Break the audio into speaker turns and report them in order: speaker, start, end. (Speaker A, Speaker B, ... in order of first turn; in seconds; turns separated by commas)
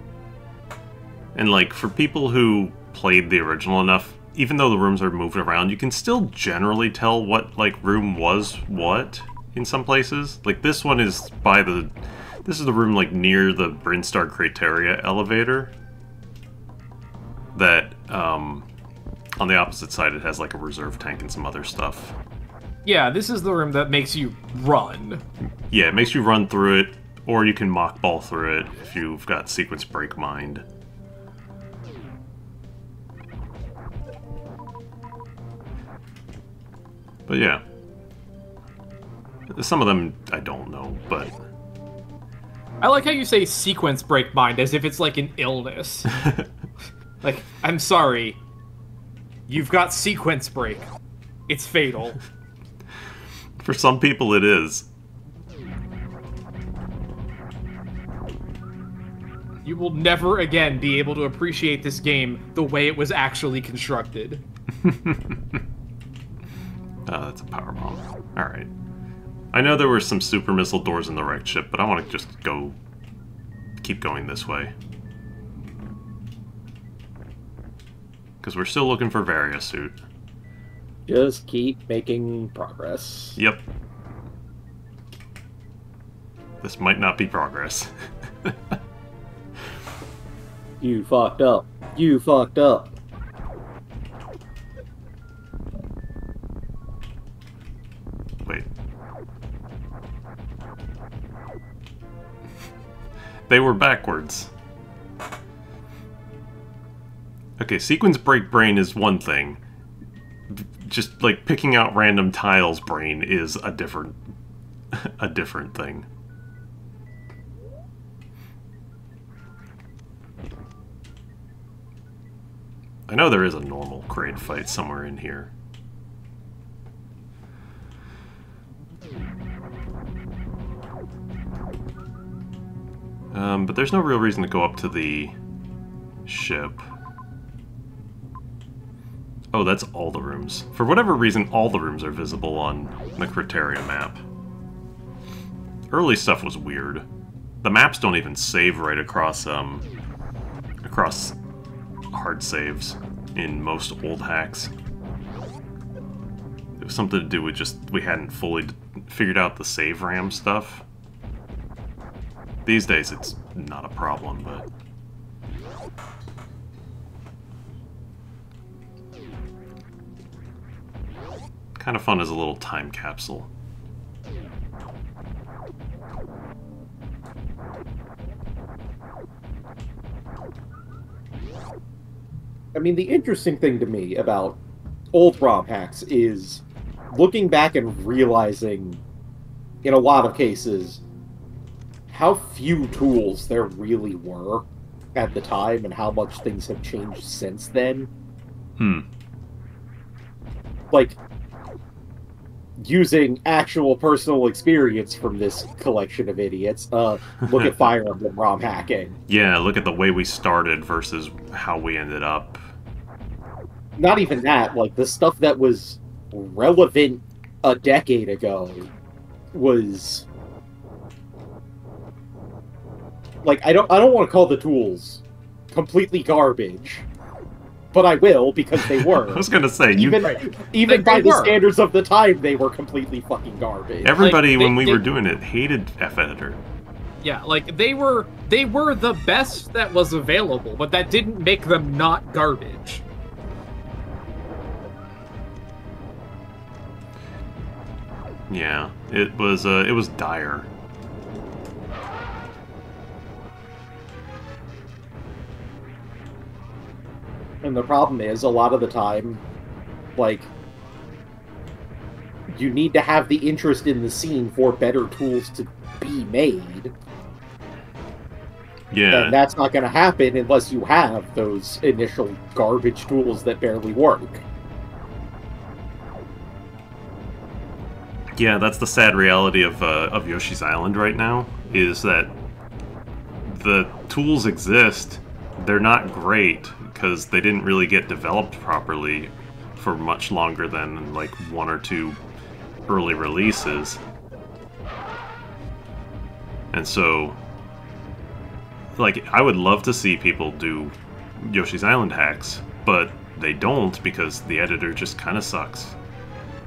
Speaker A: 1.4-11.9, Speaker A: 12.4-15.7, Speaker A: 17.6-18.7, Speaker A: 19.4-22.2, Speaker B: 22.9-25.2, Speaker A: 25.7-30.6, Speaker A: 37.3-37.6, Speaker A: 39.5-41.4, Speaker B: 42.8-46.1, Speaker A: 46.2-46.5, Speaker B: 47.2-48.4, Speaker B: 49.5-50.9, Speaker B: 51.5-52.2, Speaker A: 53.6-54.9, Speaker B: 59.6-64.4, Speaker A: 64.8-65.4, Speaker A: 67.1-68.7, Speaker A: 69.5-72.8, Speaker A: 73.8-74.7, Speaker A: 78.4-80.0, Speaker C: 81.1-83.4, Speaker A: 83.4-83.7, Speaker A: 86.6-87.9, Speaker C: 90.8-93.0, Speaker A: 103.5-104.5, Speaker A: 107.6-109.6, Speaker A: 110.5-114.2, Speaker A: 114.9-116.1, Speaker A: 123.1-125.5, Speaker A: 133.3-135.3, Speaker A: 136.3-136.8, Speaker A: 139.5-144.2, Speaker A: 145.9-147.1, Speaker A: 147.6-149.9, Speaker A: 150.8-151.4, Speaker A: 152.1-154.7, Speaker A: 156.8-160.8, Speaker A: 162.7-164.7, Speaker A: 171.8-173.5, Speaker C: 182.7-184.6, Speaker C: 185.1-189.0, Speaker C: 189.8-191.0, Speaker C: 192.1-198.1, Speaker A: 198.8-199.1, Speaker C: 200.9-201.2, Speaker C: 202.8-209.2, Speaker A: 207.5-207.8, Speaker A: 209.3-212.6, Speaker C: 214.0-218.9, Speaker C: 219.5-220.3, Speaker C: 223.4-227.1, Speaker C: 227.9-234.2, Speaker A: 229.2-230.3, Speaker B: 230.2-231.6, Speaker A: 234.0-236.6, Speaker B: 234.2-235.0, Speaker B: 237.2-243.0, Speaker A: 248.5-250.7, Speaker C: 257.6-259.4, Speaker C: 260.2-260.5, Speaker C: 262.5-266.9, Speaker A: 268.9-269.4, Speaker C: 269.1-274.4, Speaker A: 278.4-282.3, Speaker A: 283.4-292.2, Speaker A: 292.9-294.0, Speaker A: 296.7-297.4, Speaker A: 299.0-306.0